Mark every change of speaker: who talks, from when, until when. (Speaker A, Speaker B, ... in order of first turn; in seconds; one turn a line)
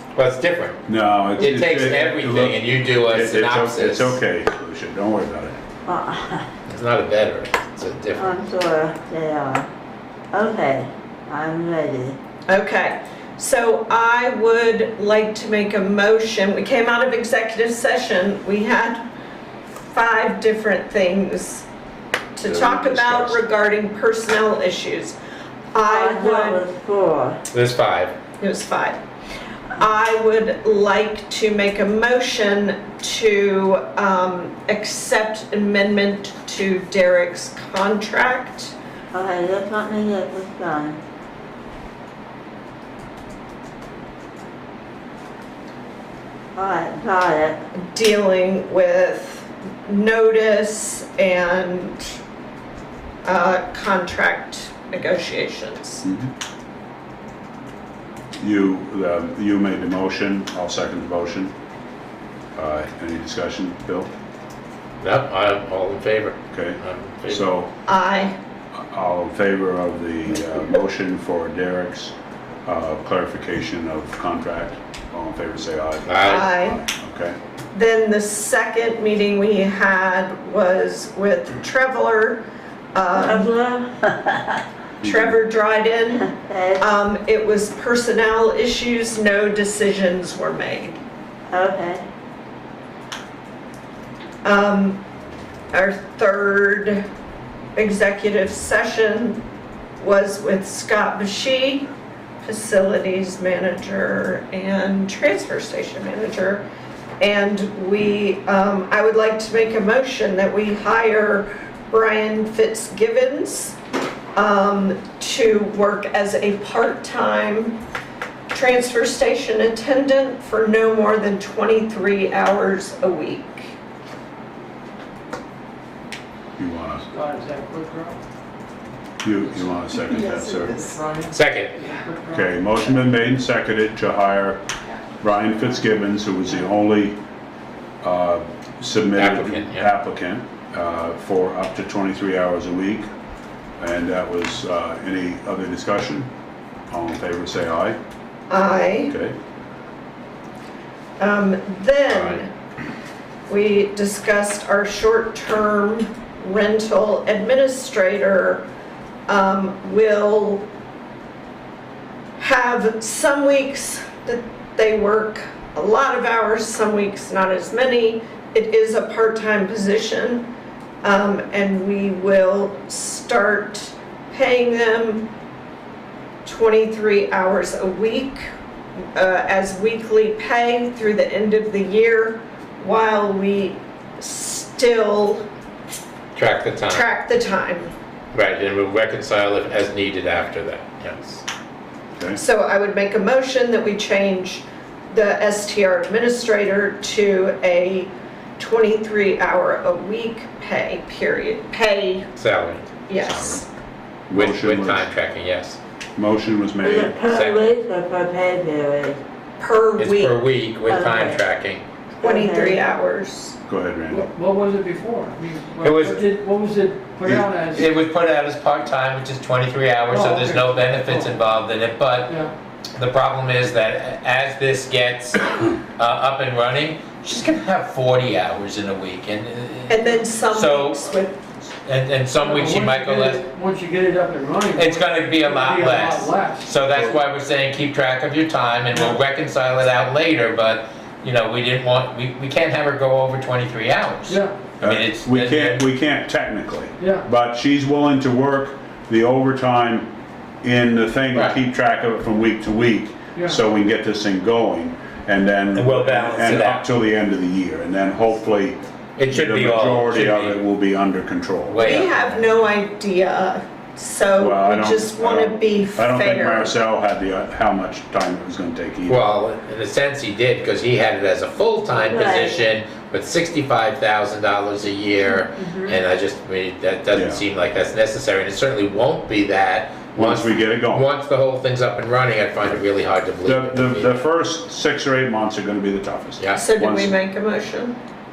Speaker A: 0.1-0.8
Speaker B: 0.9-5.6
Speaker A: 1.4-4.2
Speaker C: 5.8-6.5
Speaker A: 6.7-8.3
Speaker C: 8.2-9.7
Speaker C: 10.3-12.2
Speaker D: 12.5-19.1
Speaker D: 19.8-21.6
Speaker D: 22.3-25.1
Speaker B: 22.4-23.4
Speaker D: 25.7-26.6
Speaker C: 25.8-27.4
Speaker A: 27.5-28.1
Speaker D: 28.4-29.0
Speaker D: 29.8-38.7
Speaker C: 39.1-41.0
Speaker C: 46.5-47.6
Speaker D: 47.9-52.1
Speaker D: 53.2-56.0
Speaker B: 56.0-56.3
Speaker B: 58.4-61.5
Speaker B: 62.5-64.1
Speaker A: 65.0-67.5
Speaker B: 66.5-67.7
Speaker D: 67.8-68.3
Speaker B: 68.8-72.1
Speaker B: 72.7-77.4
Speaker A: 76.0-76.5
Speaker D: 76.2-76.8
Speaker D: 77.7-83.5
Speaker C: 83.1-84.6
Speaker B: 85.0-85.4
Speaker D: 85.0-91.0
Speaker C: 86.2-86.9
Speaker C: 91.5-92.0
Speaker D: 94.4-95.0
Speaker D: 95.7-97.0
Speaker D: 97.8-99.4
Speaker D: 100.0-101.9
Speaker D: 102.4-106.6
Speaker D: 107.2-113.8
Speaker D: 114.3-117.8
Speaker D: 118.5-123.7
Speaker B: 126.6-127.0
Speaker E: 127.1-128.2
Speaker B: 129.2-130.8
Speaker E: 130.2-132.9
Speaker A: 131.3-131.8
Speaker B: 132.3-134.6
Speaker B: 135.2-137.2
Speaker B: 138.0-143.1
Speaker A: 139.1-139.9
Speaker B: 143.8-146.3
Speaker B: 146.9-148.0
Speaker D: 148.5-149.1
Speaker B: 149.1-149.3
Speaker D: 151.2-152.5
Speaker A: 152.1-152.4
Speaker D: 153.5-158.7
Speaker D: 159.3-160.7
Speaker D: 162.4-170.5
Speaker D: 171.0-175.3
Speaker D: 176.4-178.5
Speaker D: 179.1-185.4
Speaker A: 186.3-187.1
Speaker D: 186.9-187.9
Speaker A: 188.3-191.4
Speaker D: 192.3-202.3
Speaker A: 202.3-202.8
Speaker D: 203.1-203.7
Speaker B: 203.2-203.6
Speaker B: 204.3-205.1
Speaker A: 204.3-205.8
Speaker B: 206.2-207.2
Speaker C: 206.8-209.2
Speaker A: 207.3-207.7
Speaker D: 209.6-210.3
Speaker A: 210.0-211.8
Speaker C: 210.9-211.4
Speaker C: 212.2-212.8
Speaker D: 212.2-213.6
Speaker B: 213.7-214.3
Speaker E: 214.1-217.9
Speaker A: 215.8-216.2
Speaker B: 217.2-217.5
Speaker A: 217.7-222.3
Speaker E: 220.1-221.4
Speaker E: 222.3-222.5
Speaker A: 222.9-231.1
Speaker D: 229.9-231.4
Speaker A: 231.8-233.4
Speaker E: 232.3-236.7
Speaker A: 234.7-245.8
Speaker B: 236.9-237.2
Speaker E: 244.2-244.6
Speaker B: 244.8-250.1
Speaker E: 247.0-247.2
Speaker B: 250.6-262.2
Speaker E: 253.3-253.6
Speaker A: 255.7-256.9
Speaker A: 259.2-260.6
Speaker A: 261.6-262.2
Speaker D: 261.8-266.7
Speaker B: 264.4-269.2
Speaker A: 269.1-284.2
Speaker C: 271.9-272.6
Speaker C: 275.2-276.0
Speaker B: 277.1-277.4
Speaker B: 280.1-281.1
Speaker B: 283.4-287.1
Speaker A: 286.4-286.6
Speaker D: 286.6-287.9